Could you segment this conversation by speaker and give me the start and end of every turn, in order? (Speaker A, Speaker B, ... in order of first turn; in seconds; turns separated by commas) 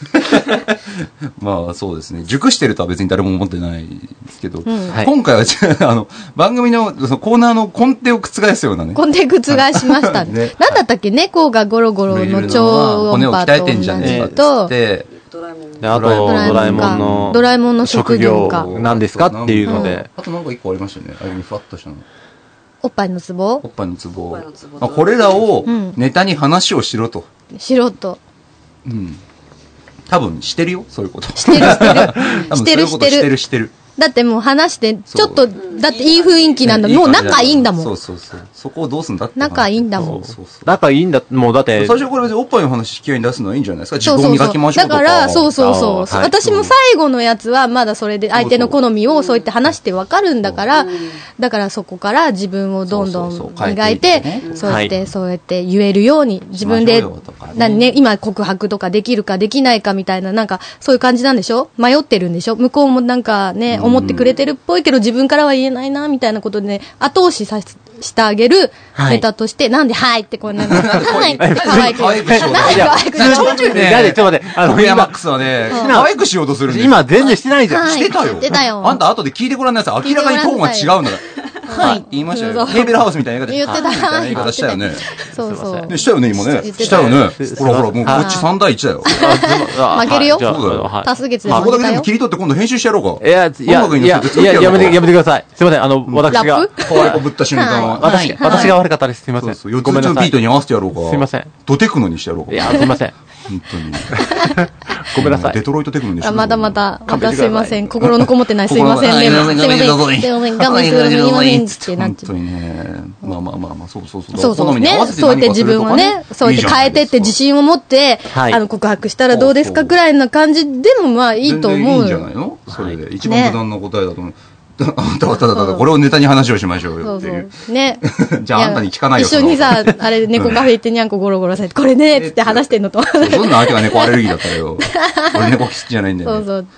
Speaker A: 0.1-10.7, Speaker B: 4.7-5.0, Speaker B: 8.9-14.7, Speaker A: 12.1-15.1, Speaker C: 14.0-14.3, Speaker D: 15.3-15.8, Speaker C: 15.8-20.1, Speaker A: 15.9-17.4, Speaker B: 16.0-18.7, Speaker A: 18.4-22.1, Speaker B: 19.6-19.9, Speaker B: 22.8-23.6, Speaker A: 23.6-27.3, Speaker D: 24.3-25.3, Speaker B: 25.6-26.0, Speaker B: 27.5-28.2, Speaker A: 28.8-29.2, Speaker A: 30.1-33.8, Speaker B: 31.4-33.3, Speaker B: 34.0-37.9, Speaker A: 35.1-35.6, Speaker D: 35.7-36.4, Speaker A: 36.6-40.8, Speaker B: 39.4-40.2, Speaker C: 40.0-42.0, Speaker A: 41.7-45.5, Speaker B: 44.0-74.0, Speaker C: 45.6-46.7, Speaker A: 48.3-48.8, Speaker A: 50.4-50.7, Speaker D: 50.7-51.2, Speaker A: 52.9-54.5, Speaker C: 54.6-54.9, Speaker A: 56.5-57.9, Speaker A: 63.7-64.3, Speaker C: 68.9-69.2, Speaker A: 70.5-77.1, Speaker C: 70.7-76.1, Speaker C: 76.6-78.1, Speaker B: 77.7-79.0, Speaker A: 77.7-85.0, Speaker B: 80.0-81.0, Speaker B: 81.7-87.3, Speaker C: 81.7-82.0, Speaker C: 83.7-84.6, Speaker C: 85.3-85.9, Speaker A: 85.9-95.1, Speaker C: 86.7-88.4, Speaker B: 88.0-88.5, Speaker B: 89.0-92.1, Speaker C: 89.1-91.7, Speaker C: 93.2-97.2, Speaker A: 96.1-98.8, Speaker B: 96.3-98.7, Speaker C: 98.0-100.4, Speaker A: 99.4-104.4, Speaker C: 100.9-101.5, Speaker C: 102.5-103.1, Speaker C: 105.0-105.6, Speaker A: 105.1-117.4, Speaker B: 106.2-112.3, Speaker C: 107.1-107.8, Speaker B: 114.3-122.3, Speaker C: 118.3-118.6, Speaker A: 119.3-120.0, Speaker A: 121.4-130.7, Speaker C: 122.7-123.0, Speaker B: 123.2-123.6, Speaker B: 125.4-125.9, Speaker B: 127.0-134.3, Speaker A: 132.1-136.5, Speaker B: 134.9-135.5, Speaker B: 136.2-136.7